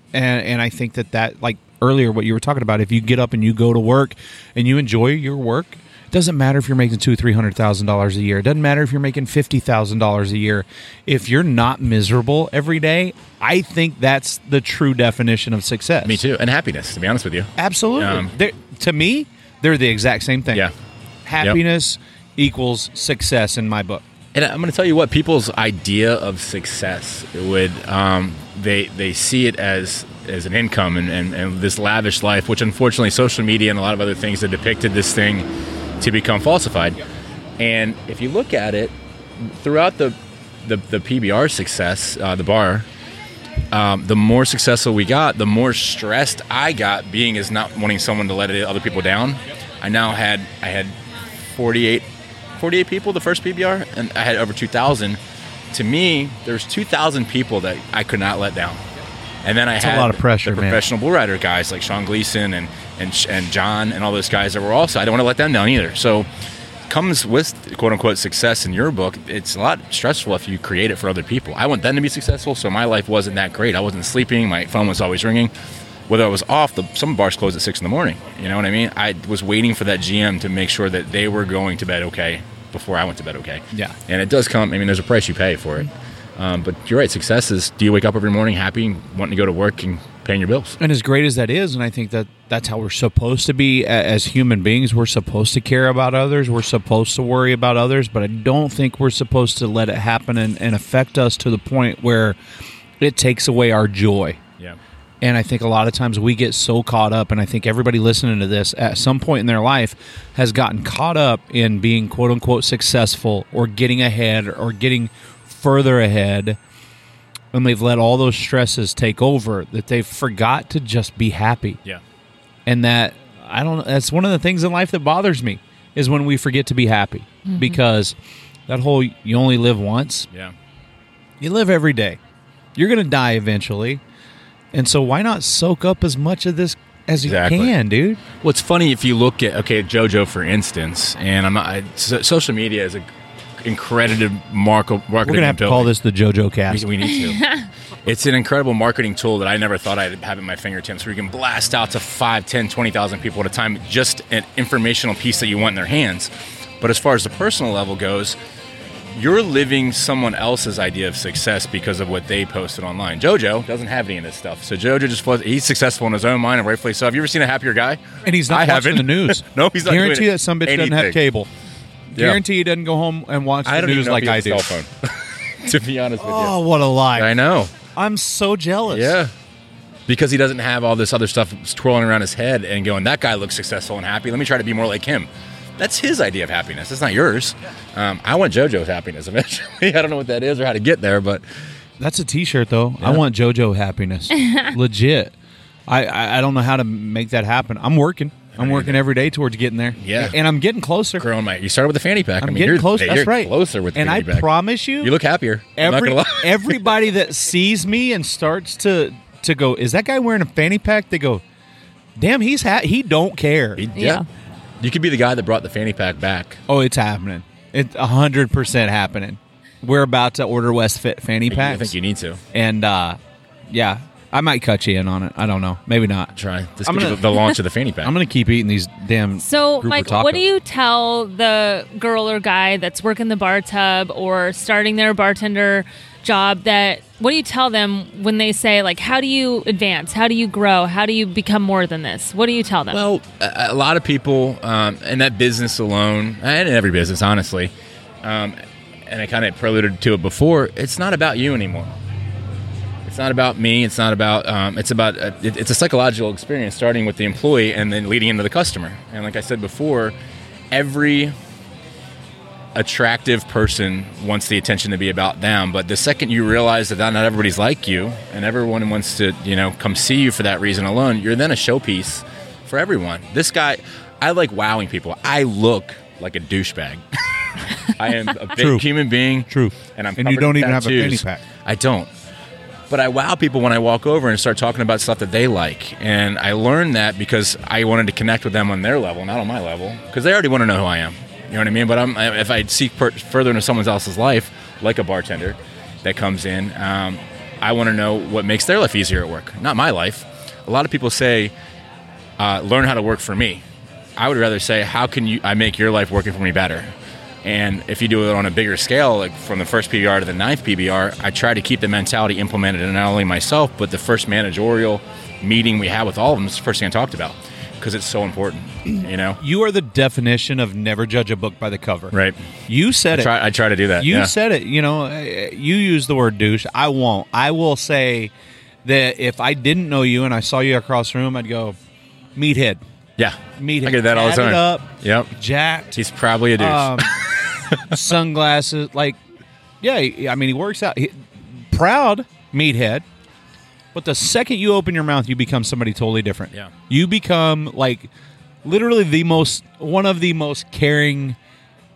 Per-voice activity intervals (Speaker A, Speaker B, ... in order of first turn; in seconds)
Speaker A: 0.1-16.2, 17.6-20.7, 21.3-24.0, 59.8-60.8, 90.8-102.4, 103.0-104.4, 105.2-116.6, 117.5-121.8, 122.7-128.2, 128.7-130.3, 131.4-132.2, 132.8-134.0, 134.7-138.2, 145.2-146.9, 168.2-171.5, 172.2-174.8, 176.2-177.3, 177.9-179.2, 192.0-195.3, 195.9-201.3, 202.4-205.2, 205.8-211.4, 212.2-213.8, 216.7-221.9, 222.5-223.2, 223.7-226.3, 226.8-227.4, 228.0-230.4, 278.6-278.9, 279.4-281.4, 319.4-322.1, 322.7-323.3, 324.0-328.3, 328.9-331.8, 332.4-332.8, 333.6-336.0, 336.6-337.1, 337.9-339.2, 339.8-343.1, 343.9-348.1, 348.6-351.4
Speaker B: 16.1-18.3, 24.4-35.5, 36.0-37.0, 37.6-42.9, 43.7-52.1, 52.6-55.2, 55.7-58.8, 59.5-66.3, 66.9-75.5, 76.1-90.8, 137.2-137.7, 138.4-143.1, 143.6-145.9, 146.7-147.4, 148.1-156.3, 156.8-158.4, 159.2-171.2, 172.2-172.4, 173.7-176.6, 177.2-177.8, 178.9-179.3, 180.1-185.3, 185.8-191.4, 198.6-199.0, 200.0-200.4, 201.2-204.5, 205.0-206.8, 213.8-214.2, 214.8-216.6, 221.5-222.4, 226.4-228.1, 242.9-247.7, 248.2-251.9, 253.1-260.1, 260.7-261.3, 262.8-282.1, 282.9-301.5, 302.4-303.6, 304.2-306.9, 307.4-319.4, 323.1-324.3, 333.2-335.3, 335.9-338.0
Speaker C: 127.5-127.8, 147.0-147.7, 194.4-194.7, 214.0-214.2, 229.4-243.0